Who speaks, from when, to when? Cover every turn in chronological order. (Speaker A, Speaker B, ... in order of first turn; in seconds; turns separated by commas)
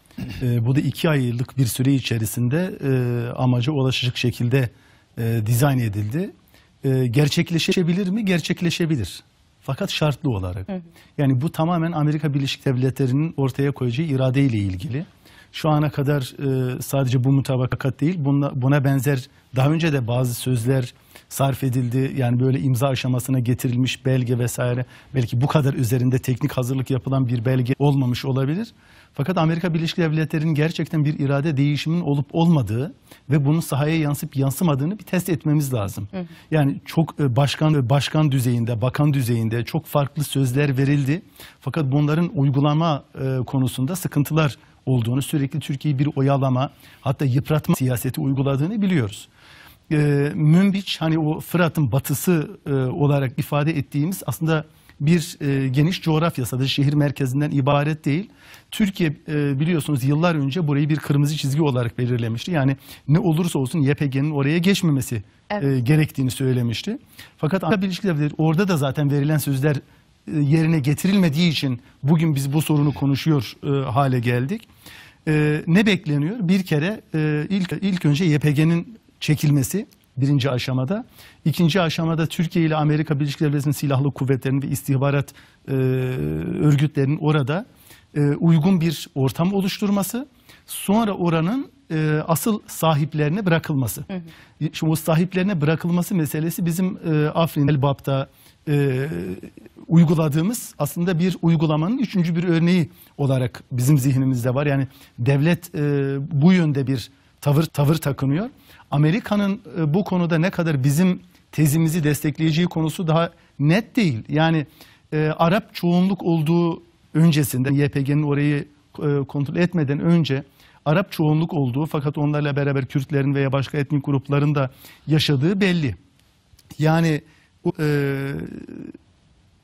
Speaker A: 0.4-49.3, Speaker A: 49.9-74.7, Speaker A: 75.2-94.1, Speaker A: 94.6-126.0, Speaker A: 126.8-128.9